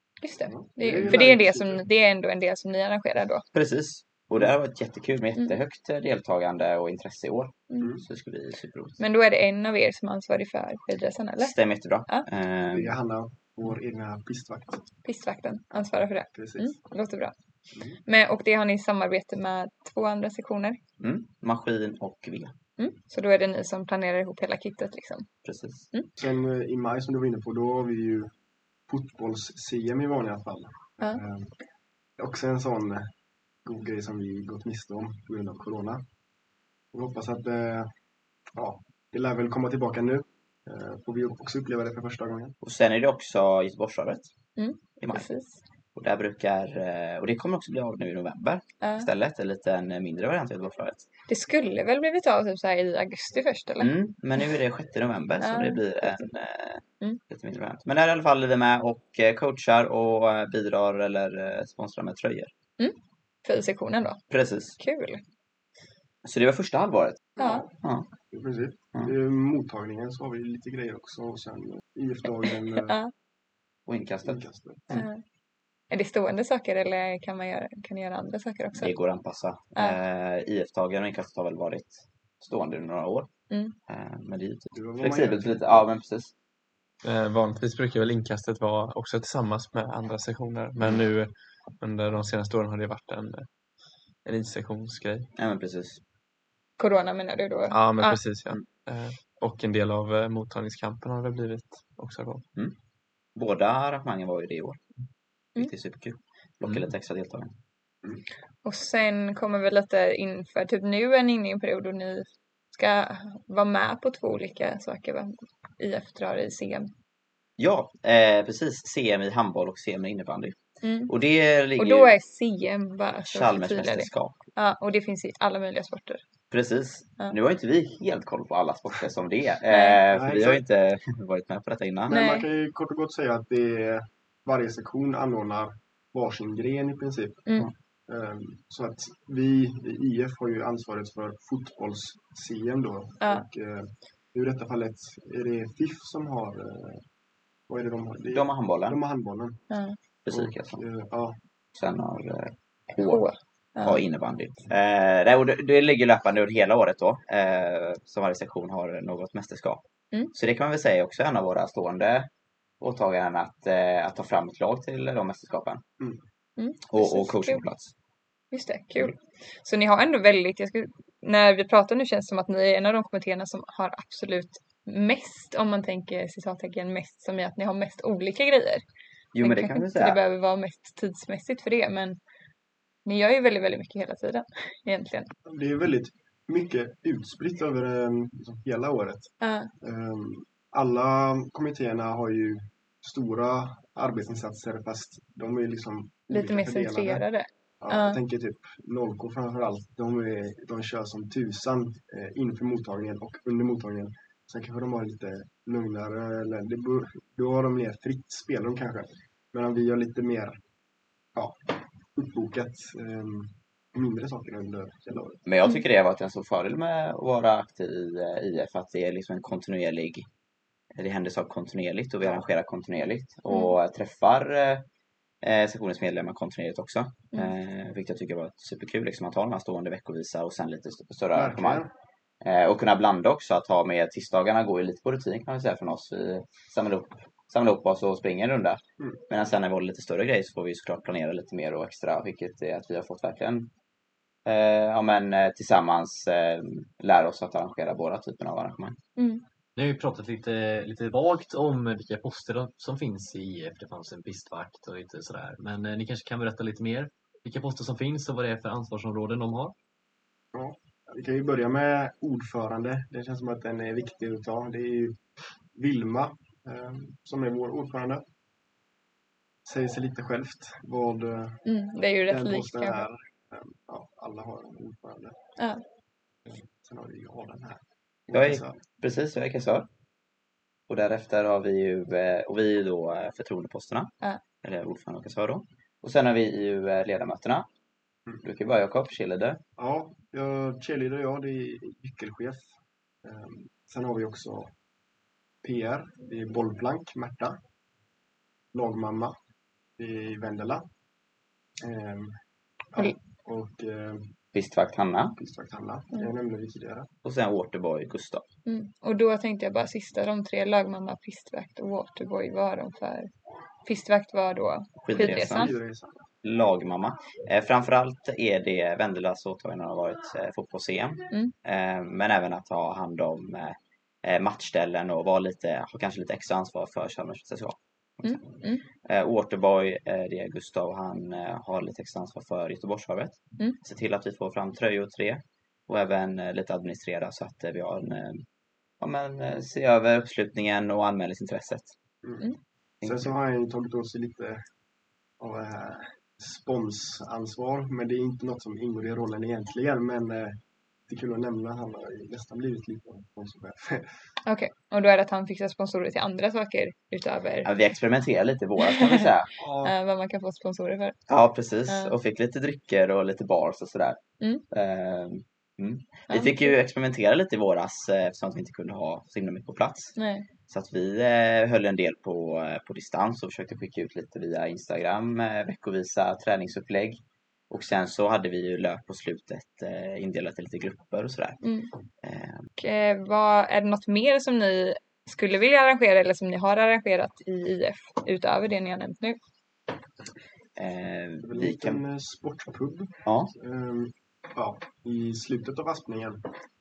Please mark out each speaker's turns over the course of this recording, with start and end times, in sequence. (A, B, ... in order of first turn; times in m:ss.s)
0:00.2-0:03.4 A
0:00.5-0:01.8 B
0:03.5-0:09.0 C
0:09.0-0:11.5 A
0:11.4-0:12.9 C
0:12.7-0:14.8 B
0:15.0-0:17.3 A
0:16.3-0:16.8 B
0:17.7-0:18.0 B
0:18.0-0:20.8 A
0:21.0-0:22.5 C
0:22.8-0:25.3 A
0:25.4-0:25.8 C
0:26.2-0:28.3 B
0:28.9-0:31.5 B
0:32.2-0:33.1 B
0:33.6-0:36.0 B
0:36.9-0:37.9 B
0:38.6-0:42.6 B
0:42.6-0:44.3 C
0:44.6-0:45.6 A
0:45.0-0:45.3 C
0:45.9-0:51.0 C
0:48.8-0:49.1 A
0:51.3-0:54.5 A
0:53.8-1:02.5 C
0:55.4-0:56.2 A
1:02.8-1:04.2 A
1:04.3-1:04.8 C
1:04.8-1:05.2 A
1:06.2-1:08.1 C
1:07.4-1:07.7 A
1:07.4-1:07.7 B
1:08.3-1:13.0 B
1:12.8-1:13.1 A
1:13.9-1:15.0 C
1:14.2-1:15.0 B
1:14.9-1:15.2 A
1:15.9-1:18.9 A
1:18.7-1:23.3 C
1:19.8-1:20.0 A
1:23.5-1:23.7 A
1:23.9-1:26.3 C
1:24.7-1:25.9 B
1:27.0-1:33.5 D
1:34.2-1:35.3 D
1:35.4-1:36.0 C
1:36.8-1:38.2 A
1:37.7-1:42.4 D
1:43.3-1:44.8 C
1:45.6-1:47.5 C
1:48.6-1:56.9 A
1:57.6-2:00.6 C
2:00.8-2:01.1 A
2:01.1-2:02.2 C
2:01.8-2:06.2 A
2:03.2-2:04.4 C
2:06.5-2:12.2 C
2:09.7-2:10.0 A
2:10.1-2:10.6 B
2:12.1-2:27.0 B
2:12.1-2:12.4 A
2:27.7-2:29.6 B
2:28.3-2:29.0 C
2:29.7-2:30.0 A
2:30.2-2:30.8 C
2:30.3-2:31.4 B
2:31.7-2:33.3 C
2:33.0-2:34.0 A
2:33.8-2:42.3 C
2:42.8-2:45.8 C
2:46.6-2:47.6 A
2:46.9-2:47.9 C
2:48.5-2:58.8 A
2:59.3-3:00.2 C
2:59.4-3:02.2 A
3:03.0-3:05.3 A
3:05.4-3:17.3 B
3:09.4-3:09.7 A
3:16.3-3:18.2 A
3:17.8-3:30.6 B
3:31.3-3:35.4 B
3:35.4-3:40.3 C
3:41.0-3:44.8 C
3:42.2-3:42.5 B
3:43.5-3:43.8 A
3:45.4-3:51.8 C
3:51.3-3:51.9 B
3:52.4-4:03.7 C
4:04.4-4:09.0 C
4:09.2-4:09.4 A
4:09.8-4:19.7 E
4:20.5-4:25.2 B
4:25.7-4:28.2 B
4:29.6-4:31.6 B
4:31.6-4:33.0 A
4:32.3-4:35.4 B
4:35.6-4:35.8 A
4:36.5-4:38.8 B
4:38.3-4:39.9 C
4:40.9-4:47.7 C
4:48.4-4:49.6 C
4:49.8-4:54.7 B
4:55.6-4:57.6 B
4:58.7-4:59.3 B
5:00.0-5:00.8 B
5:01.8-5:02.3 B
5:02.9-5:04.3 B
5:04.5-5:05.3 C
5:05.4-5:07.1 B
5:07.2-5:08.4 C
5:08.6-5:13.3 A
5:13.8-5:15.7 A
5:15.0-5:15.8 C
5:15.5-5:16.3 B
5:16.4-5:38.4 C
5:28.2-5:28.8 A
5:39.0-5:41.9 C
5:42.2-5:42.5 B
5:43.0-5:44.6 B
5:45.4-5:54.1 B
5:54.4-5:57.7 A
5:57.6-5:59.5 C
5:58.8-5:59.3 A
5:59.6-5:59.9 B
5:59.8-6:01.2 A
6:01.3-6:04.2 C
6:01.9-6:02.1 A
6:04.7-6:10.2 C
6:06.3-6:06.7 A
6:10.2-6:10.5 A
6:10.7-6:17.2 C
6:17.7-6:21.6 C
6:21.6-6:21.9 A
6:22.2-6:22.6 C
6:22.8-6:29.4 A
6:30.8-6:32.0 C
6:31.4-6:36.5 B
6:33.2-6:33.5 C